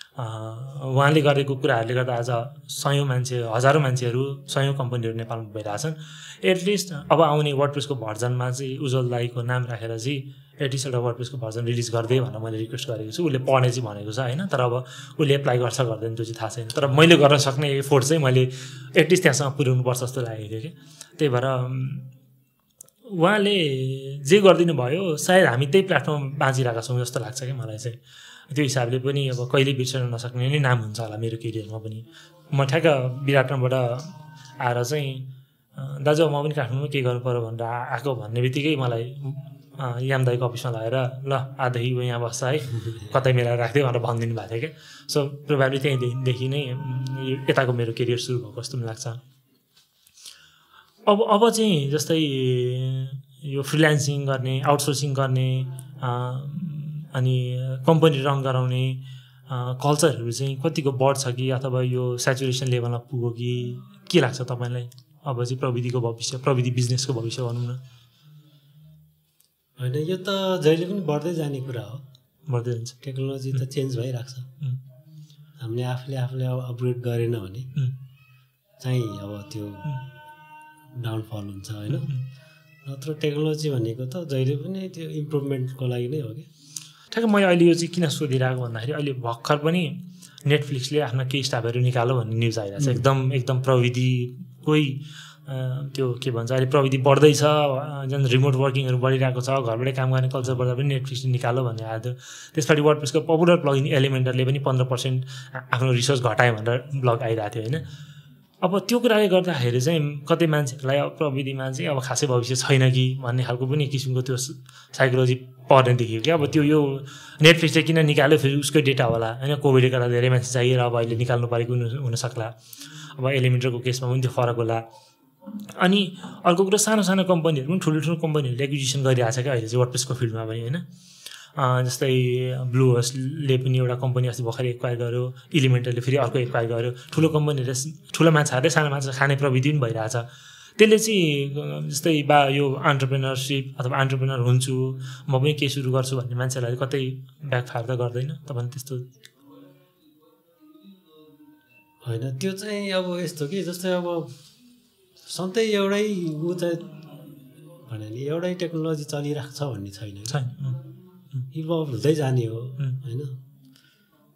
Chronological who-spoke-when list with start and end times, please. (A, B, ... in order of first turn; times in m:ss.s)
0:00.2-0:22.1 A
0:23.1-0:28.0 A
0:28.5-0:49.2 A
0:42.8-0:43.1 B
0:51.1-1:07.8 A
1:09.8-1:12.1 B
1:12.5-1:13.0 A
1:13.0-1:14.5 B
1:15.6-1:17.7 B
1:18.8-1:19.9 B
1:21.0-1:22.1 B
1:21.9-1:22.2 A
1:22.8-1:26.5 B
1:27.1-1:47.9 A
1:32.8-1:33.0 B
1:48.6-2:02.5 A
2:03.2-2:04.8 A
2:05.8-2:10.8 A
2:11.6-2:20.3 A
2:20.8-2:29.1 A
2:32.0-2:34.4 B
2:35.2-2:37.0 B
2:37.8-2:40.4 B
2:40.3-2:40.8 A
2:41.5-2:43.4 B